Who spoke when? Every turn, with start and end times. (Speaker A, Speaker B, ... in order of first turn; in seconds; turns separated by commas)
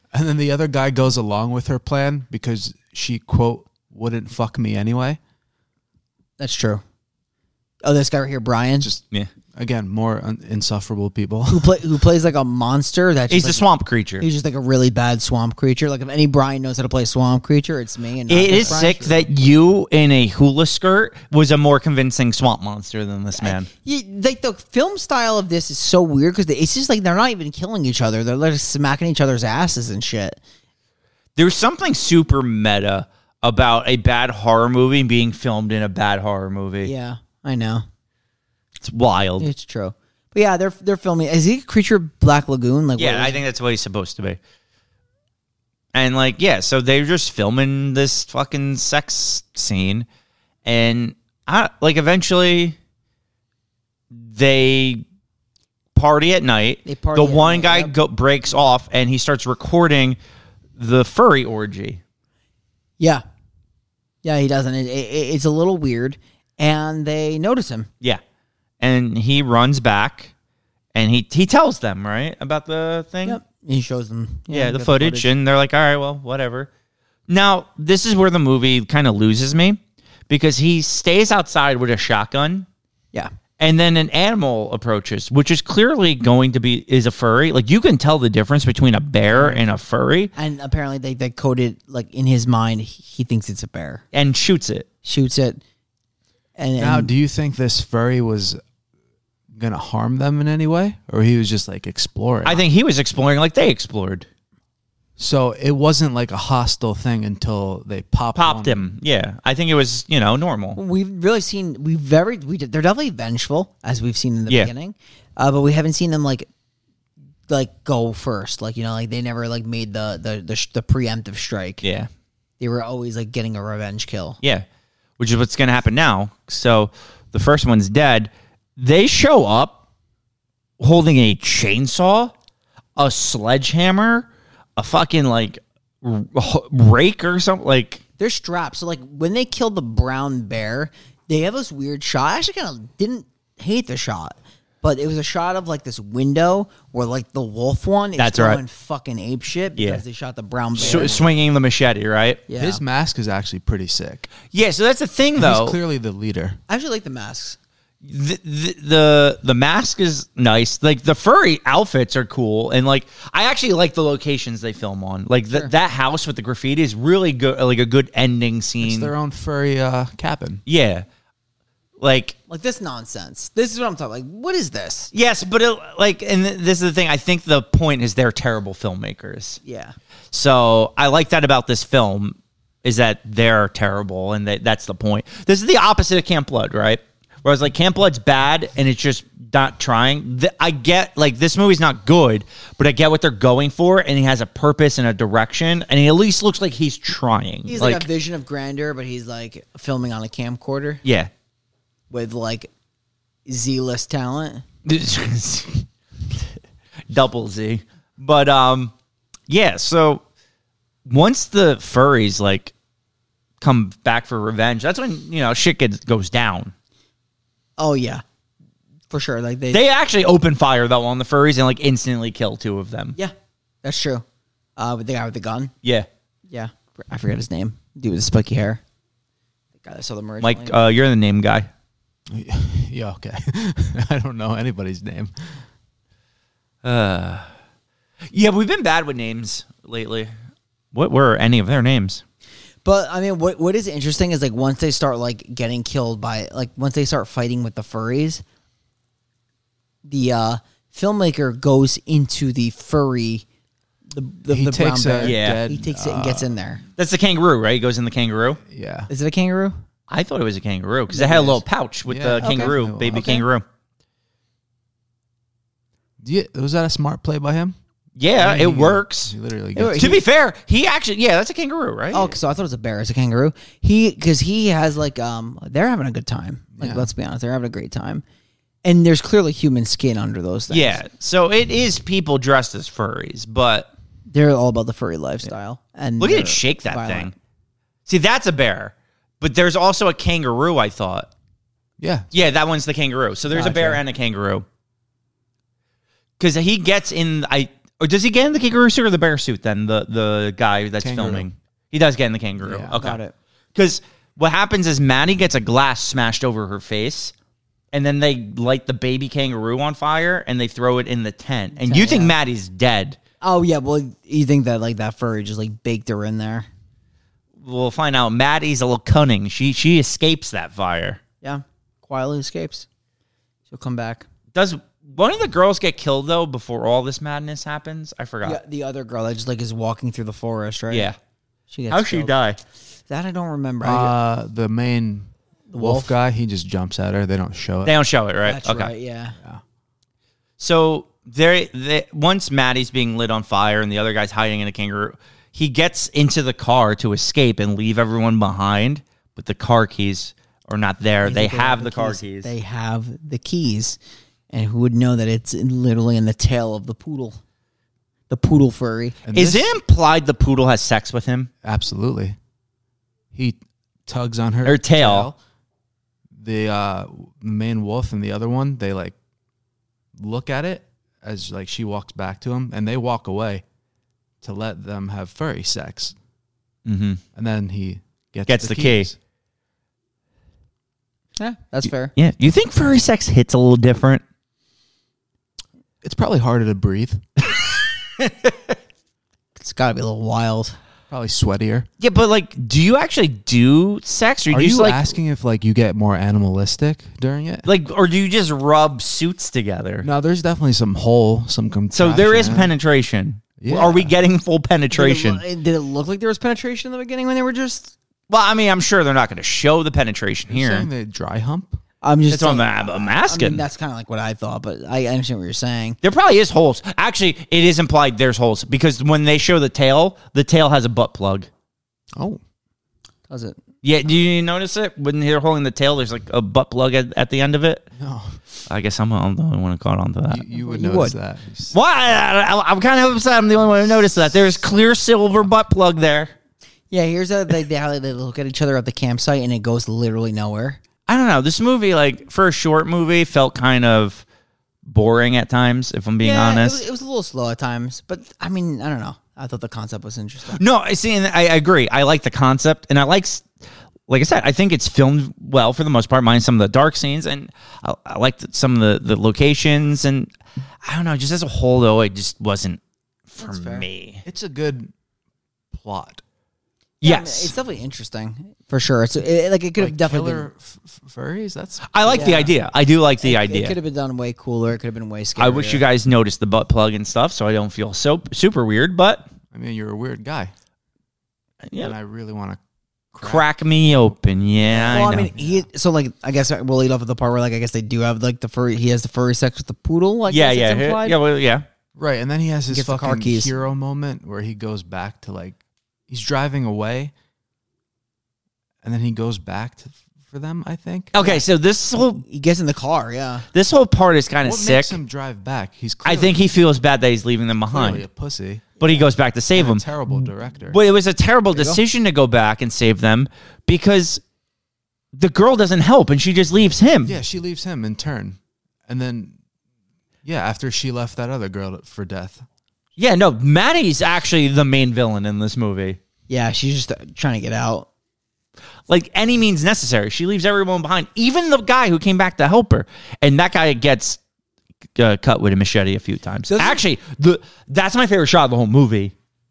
Speaker A: 0.1-5.2, Speaker B: 6.4-6.8, Speaker B: 7.8-8.9, Speaker A: 9.5-11.9, Speaker B: 11.5-13.7, Speaker C: 13.3-14.2, Speaker B: 14.2-18.9, Speaker C: 18.3-23.7, Speaker A: 18.4-19.3, Speaker B: 23.3-30.4, Speaker C: 31.4-36.9, Speaker B: 36.8-37.8, Speaker C: 38.8-39.5, Speaker B: 39.4-43.4, Speaker C: 43.0-44.4, Speaker C: 45.9-50.1, Speaker C: 50.6-52.8, Speaker C: 54.1-55.0, Speaker C: 56.0-60.2, Speaker B: 56.8-57.9, Speaker C: 60.8-62.0, Speaker B: 64.2-67.9, Speaker C: 68.8-70.3, Speaker C: 70.9-73.4, Speaker B: 73.2-75.3, Speaker C: 74.5-76.7, Speaker C: 77.3-82.7, Speaker C: 83.6-90.3, Speaker B: 89.3-89.6, Speaker B: 90.3-94.0, Speaker C: 94.1-94.9, Speaker B: 95.0-95.6, Speaker B: 96.6-97.1, Speaker A: 96.8-98.6, Speaker A: 99.5-102.6, Speaker C: 102.4-104.3, Speaker A: 105.2-108.9, Speaker C: 108.3-110.8, Speaker B: 110.8-116.5, Speaker B: 117.5-121.8, Speaker C: 121.8-122.1, Speaker B: 122.6-124.4, Speaker C: 125.2-129.8, Speaker C: 130.8-132.3, Speaker C: 133.0-138.0, Speaker B: 138.2-151.2, Speaker C: 148.2-148.6, Speaker C: 149.7-150.0, Speaker A: 150.7-151.3, Speaker C: 150.8-152.4, Speaker B: 152.5-152.8, Speaker A: 152.5-154.3, Speaker C: 154.5-155.8, Speaker A: 155.3-156.6, Speaker B: 156.7-157.6, Speaker C: 158.0-169.1, Speaker A: 168.8-170.6, Speaker C: 170.7-171.1, Speaker C: 172.0-172.3, Speaker B: 172.5-175.1, Speaker C: 175.1-179.6, Speaker B: 179.6-179.9, Speaker C: 180.3-198.1, Speaker B: 197.7-201.0, Speaker C: 201.0-201.3, Speaker B: 202.1-202.7, Speaker B: 203.4-204.6, Speaker C: 204.8-205.8, Speaker C: 207.1-208.9, Speaker C: 209.5-210.2, Speaker C: 211.1-212.7, Speaker C: 213.6-216.7, Speaker B: 217.8-218.2, Speaker B: 219.1-219.8, Speaker C: 219.7-223.2, Speaker B: 223.8-224.2, Speaker B: 224.8-225.7, Speaker B: 226.5-228.8, Speaker B: 229.8-230.8, Speaker C: 230.4-231.7, Speaker A: 232.3-235.3, Speaker C: 236.8-237.5, Speaker C: 238.3-240.3, Speaker C: 240.9-242.2, Speaker B: 242.8-248.4, Speaker B: 250.0-253.4, Speaker B: 254.1-256.8, Speaker A: 254.5-256.5, Speaker C: 255.2-255.7, Speaker C: 257.0-258.6, Speaker A: 258.7-259.1, Speaker B: 259.1-259.7, Speaker C: 260.1-263.6, Speaker B: 261.1-261.6, Speaker A: 262.1-263.4, Speaker B: 262.4-262.7, Speaker A: 266.2-267.8, Speaker C: 268.1-269.3, Speaker A: 268.4-270.1, Speaker B: 269.8-270.2, Speaker C: 269.9-272.3, Speaker B: 272.1-278.2, Speaker A: 276.8-277.1, Speaker B: 278.8-281.0, Speaker C: 280.7-283.9, Speaker B: 284.3-287.3, Speaker C: 286.2-287.3, Speaker C: 288.1-291.3, Speaker A: 292.0-292.3, Speaker C: 292.3-294.6, Speaker B: 293.5-294.0, Speaker C: 296.4-303.2, Speaker A: 301.0-301.5, Speaker A: 302.6-303.0, Speaker B: 303.0-303.3, Speaker C: 303.7-307.3, Speaker C: 307.9-313.2, Speaker B: 311.7-312.4, Speaker B: 313.4-316.7, Speaker C: 317.6-321.2, Speaker B: 321.4-322.9, Speaker B: 323.7-324.2, Speaker C: 324.5-328.6, Speaker B: 328.4-331.1, Speaker C: 330.9-331.2, Speaker B: 331.7-332.3, Speaker C: 331.9-332.6, Speaker B: 333.1-334.1, Speaker A: 333.8-337.9, Speaker B: 335.7-336.2, Speaker C: 337.8-338.9, Speaker B: 338.4-339.4, Speaker C: 340.6-352.5, Speaker B: 351.2-354.0, Speaker B: 354.5-357.4, Speaker B: 358.3-359.2, Speaker A: 359.2-359.7, Speaker C: 359.3-361.5, Speaker A: 361.6-362.4, Speaker A: 363.3-365.4, Speaker C: 364.6-365.3, Speaker A: 366.4-369.1, Speaker A: 370.2-373.6, Speaker A: 374.4-376.1, Speaker C: 376.9-377.2, Speaker A: 377.4-379.2, Speaker C: 378.5-379.1, Speaker B: 381.4-382.1, Speaker C: 382.1-384.2, Speaker A: 386.0-387.2, Speaker C: 387.5-388.7, Speaker B: 389.6-390.8, Speaker A: 391.1-391.9, Speaker C: 392.0-395.1, Speaker A: 394.5-397.6, Speaker C: 397.6-400.1, Speaker A: 400.0-402.7, Speaker C: 401.9-405.4, Speaker A: 403.6-404.1, Speaker B: 404.9-407.9, Speaker C: 408.3-410.9, Speaker A: 410.5-411.8, Speaker B: 412.0-416.0, Speaker C: 412.3-413.6, Speaker C: 416.0-421.5, Speaker B: 423.3-423.6, Speaker C: 423.8-427.8, Speaker A: 428.0-428.4, Speaker C: 428.7-430.5, Speaker A: 430.3-431.8, Speaker B: 430.5-431.2, Speaker C: 431.7-436.3, Speaker B: 436.9-440.8, Speaker C: 441.1-444.2, Speaker C: 444.9-446.8, Speaker B: 446.2-450.6, Speaker C: 450.5-453.4, Speaker C: 454.1-460.3, Speaker C: 460.8-464.2, Speaker B: 463.4-463.9, Speaker A: 464.2-464.9, Speaker A: 465.7-466.2, Speaker C: 467.0-467.5, Speaker B: 467.0-470.5, Speaker A: 469.8-472.6, Speaker C: 471.9-473.8, Speaker B: 472.1-472.5, Speaker B: 473.2-475.8, Speaker C: 475.4-479.2, Speaker A: 479.5-480.5, Speaker C: 481.7-481.9, Speaker A: 481.8-482.6, Speaker A: 483.1-483.5, Speaker C: 483.2-485.3, Speaker A: 484.6-485.7, Speaker B: 484.9-491.2, Speaker C: 490.3-491.6, Speaker A: 491.9-497.1, Speaker B: 492.7-493.5, Speaker A: 498.8-501.1, Speaker C: 501.1-502.2, Speaker B: 501.1-501.4, Speaker B: 502.2-503.4, Speaker C: 503.5-505.0, Speaker A: 504.4-506.4, Speaker C: 506.0-508.1, Speaker A: 507.7-508.8, Speaker B: 508.8-509.0, Speaker C: 508.8-509.9, Speaker A: 509.5-510.8, Speaker C: 510.7-514.2, Speaker B: 511.5-511.8, Speaker C: 515.1-517.2, Speaker A: 517.0-519.4, Speaker A: 520.2-522.4, Speaker C: 523.0-526.0, Speaker B: 526.3-527.9, Speaker C: 528.9-534.2, Speaker C: 535.0-539.1, Speaker B: 536.5-536.8